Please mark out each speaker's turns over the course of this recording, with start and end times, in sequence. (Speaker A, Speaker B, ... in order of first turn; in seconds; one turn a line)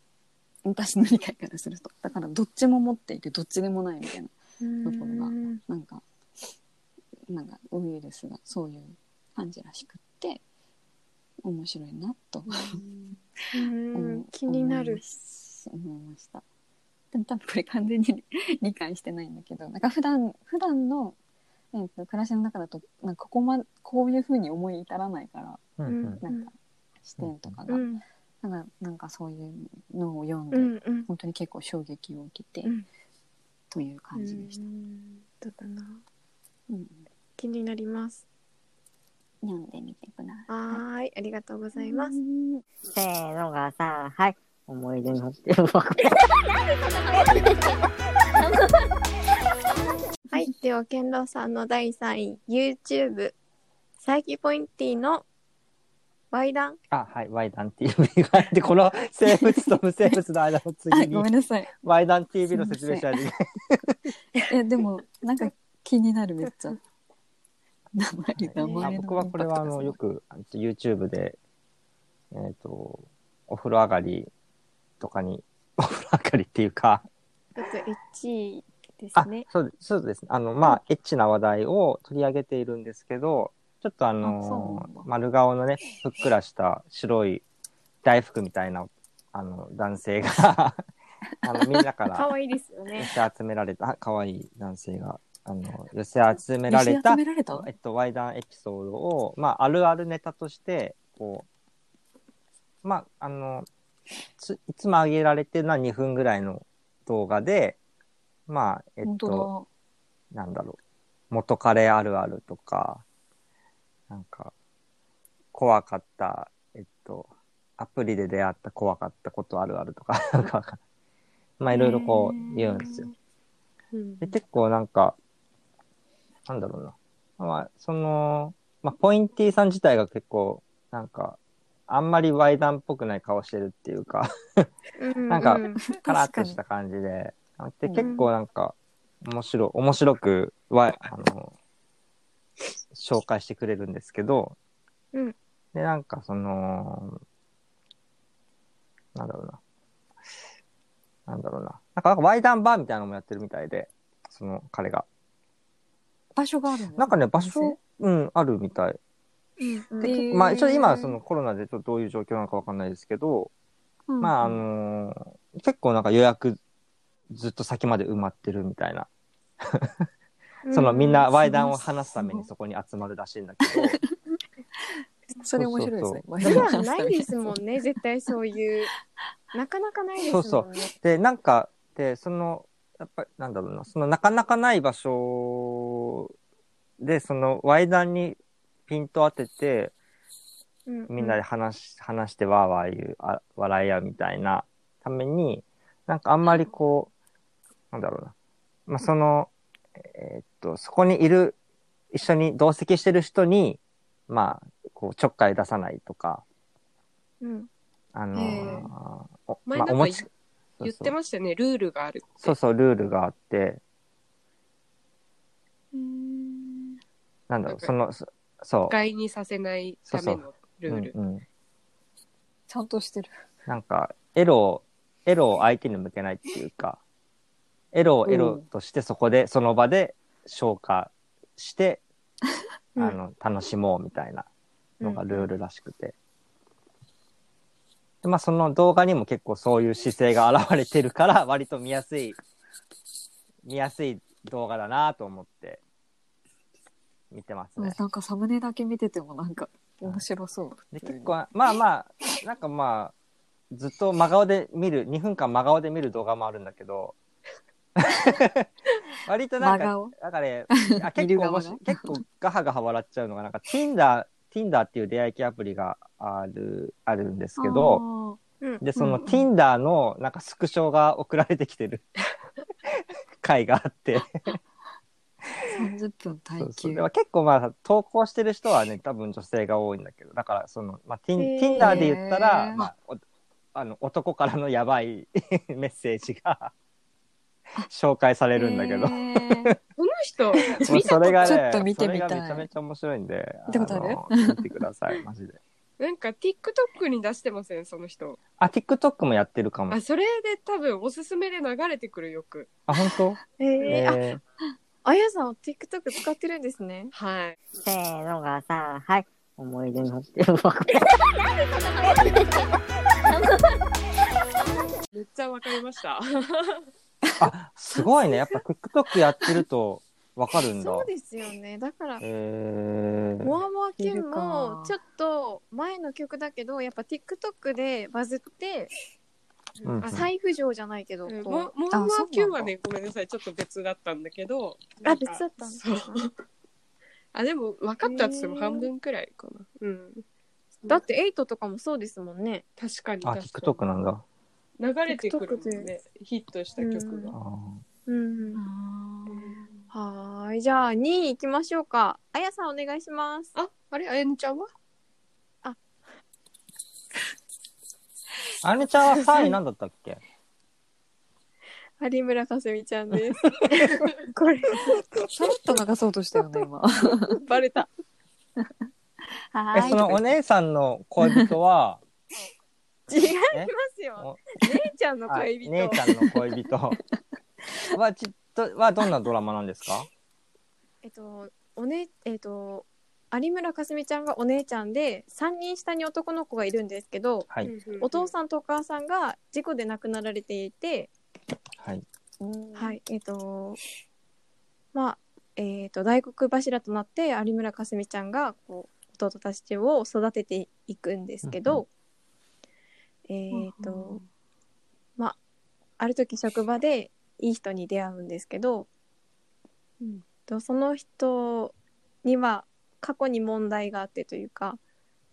Speaker A: 0.6-6.0
Speaker B: 4.6-5.6
Speaker A: 7.3-10.4
Speaker A: 11.4-12.8
Speaker A: 13.5-16.4
Speaker B: 13.5-15.0
Speaker A: 17.1-21.2
Speaker A: 21.7-25.6
Speaker C: 25.8-26.2
Speaker B: 25.9-26.5
Speaker A: 26.2-26.5
Speaker A: 27.0-27.9
Speaker C: 27.2-27.6
Speaker B: 27.7-28.0
Speaker A: 28.4-32.7
Speaker B: 30.5-31.1
Speaker A: 33.7-34.6
Speaker B: 34.1-36.0
Speaker A: 36.7-37.0
Speaker B: 37.4-38.2
Speaker A: 39.4-40.8
Speaker B: 40.5-42.2
Speaker A: 41.8-42.6
Speaker D: 42.9-46.3
Speaker D: 47.1-47.7
Speaker B: 50.3-53.4
Speaker B: 54.0-55.2
Speaker B: 56.3-56.8
Speaker C: 56.9-64.0
Speaker A: 59.3-60.2
Speaker A: 60.9-61.7
Speaker A: 62.5-63.1
Speaker A: 64.5-66.8
Speaker A: 68.0-70.0
Speaker C: 68.4-71.4
Speaker B: 68.6-68.9
Speaker C: 72.3-74.3
Speaker C: 75.0-77.0
Speaker B: 77.6-79.5
Speaker C: 79.2-87.4
Speaker A: 84.2-85.1
Speaker C: 88.0-90.8
Speaker C: 91.4-92.3
Speaker B: 92.1-93.1
Speaker C: 93.0-101.5
Speaker A: 96.7-97.7
Speaker C: 102.8-103.7
Speaker C: 104.4-107.8
Speaker C: 108.5-109.5
Speaker A: 109.0-109.7
Speaker C: 110.3-110.8
Speaker C: 111.3-113.0
Speaker C: 114.1-114.5
Speaker C: 115.5-120.8
Speaker C: 121.6-123.1
Speaker A: 121.7-123.1
Speaker E: 123.9-124.2
Speaker C: 124.2-125.2
Speaker C: 126.5-134.7
Speaker B: 135.0-135.8
Speaker C: 135.3-141.5
Speaker A: 135.4-136.6
Speaker A: 137.8-138.1
Speaker B: 138.0-138.3
Speaker C: 142.9-144.6
Speaker C: 145.7-147.2
Speaker C: 149.2-149.6
Speaker C: 151.3-155.1
Speaker A: 156.3-157.8
Speaker C: 157.0-159.0
Speaker B: 159.6-161.2
Speaker A: 160.0-160.9
Speaker C: 160.1-163.5
Speaker A: 164.1-164.6
Speaker C: 164.2-166.6
Speaker C: 167.3-169.1
Speaker C: 169.6-169.9
Speaker B: 170.7-171.6
Speaker C: 170.7-174.0
Speaker A: 171.5-172.5
Speaker A: 173.7-174.0
Speaker A: 175.4-177.5
Speaker C: 175.6-176.6
Speaker B: 176.4-178.9
Speaker B: 179.5-180.9
Speaker C: 180.3-186.3
Speaker C: 187.0-189.9
Speaker B: 190.9-191.4
Speaker C: 191.1-197.1
Speaker C: 197.9-198.3
Speaker C: 198.9-201.6
Speaker C: 202.1-206.4
Speaker B: 207.4-207.7
Speaker C: 208.1-211.2
Speaker A: 208.3-208.9
Speaker E: 209.7-210.3
Speaker E: 210.8-212.6
Speaker C: 212.4-213.8
Speaker A: 215.9-217.0
Speaker C: 217.5-219.0
Speaker E: 218.9-221.1
Speaker C: 220.1-221.4
Speaker A: 222.7-223.4
Speaker C: 223.7-227.0
Speaker C: 227.9-232.0
Speaker A: 228.3-228.6
Speaker C: 233.0-234.5
Speaker B: 235.0-235.5
Speaker C: 235.0-236.2
Speaker C: 238.2-242.4
Speaker C: 243.6-245.8
Speaker C: 247.3-248.0
Speaker A: 247.8-251.4
Speaker C: 250.9-253.1
Speaker C: 253.7-257.2
Speaker C: 258.0-258.7
Speaker C: 259.2-268.0
Speaker A: 259.6-260.1
Speaker A: 260.7-262.2
Speaker A: 267.6-268.4
Speaker C: 268.8-272.1
Speaker A: 269.0-269.5
Speaker C: 272.9-274.6
Speaker A: 275.7-277.1
Speaker C: 276.6-283.2
Speaker B: 281.4-282.1
Speaker A: 281.8-282.9
Speaker C: 283.7-286.7
Speaker C: 287.9-289.8
Speaker A: 288.6-289.8
Speaker E: 290.0-291.6
Speaker A: 290.7-292.7
Speaker C: 290.9-295.6
Speaker A: 293.7-294.6
Speaker E: 296.0-298.4
Speaker C: 298.6-300.0
Speaker E: 299.9-302.7
Speaker C: 302.9-304.4
Speaker B: 303.6-304.2
Speaker B: 305.0-307.1
Speaker E: 307.1-307.6
Speaker D: 307.8-311.3
Speaker D: 311.9-312.6
Speaker E: 315.1-316.9
Speaker C: 317.4-321.1
Speaker B: 320.8-322.2
Speaker C: 322.2-323.6
Speaker B: 323.4-328.9
Speaker A: 324.0-325.0
Speaker E: 329.8-330.3
Speaker C: 329.8-330.3
Speaker B: 330.1-331.7
Speaker E: 331.3-336.3
Speaker A: 331.9-332.7
Speaker B: 335.0-336.2
Speaker E: 337.3-340.2
Speaker B: 338.0-338.9
Speaker B: 340.9-342.6
Speaker E: 342.8-343.8
Speaker C: 343.2-344.2
Speaker E: 344.8-347.4
Speaker B: 345.1-345.9
Speaker B: 346.8-347.3
Speaker C: 347.3-347.8
Speaker B: 348.1-348.6
Speaker A: 348.6-349.7
Speaker E: 349.3-349.7
Speaker B: 349.9-353.6
Speaker E: 353.6-354.7
Speaker C: 358.6-360.2
Speaker B: 362.0-365.1
Speaker A: 365.3-367.4
Speaker B: 367.3-367.9
Speaker A: 369.5-370.3
Speaker C: 369.8-372.0
Speaker A: 371.2-371.5
Speaker B: 373.1-376.0
Speaker C: 373.5-374.6
Speaker C: 375.3-377.0
Speaker A: 376.1-376.4
Speaker C: 377.9-380.1
Speaker B: 381.0-387.5
Speaker E: 387.6-388.3
Speaker B: 388.0-391.1
Speaker C: 391.8-392.0
Speaker A: 392.4-393.0
Speaker B: 392.8-393.8
Speaker B: 394.9-401.9
Speaker C: 401.4-401.8
Speaker B: 403.3-404.2
Speaker A: 403.5-404.3
Speaker B: 406.0-408.9
Speaker B: 410.5-414.8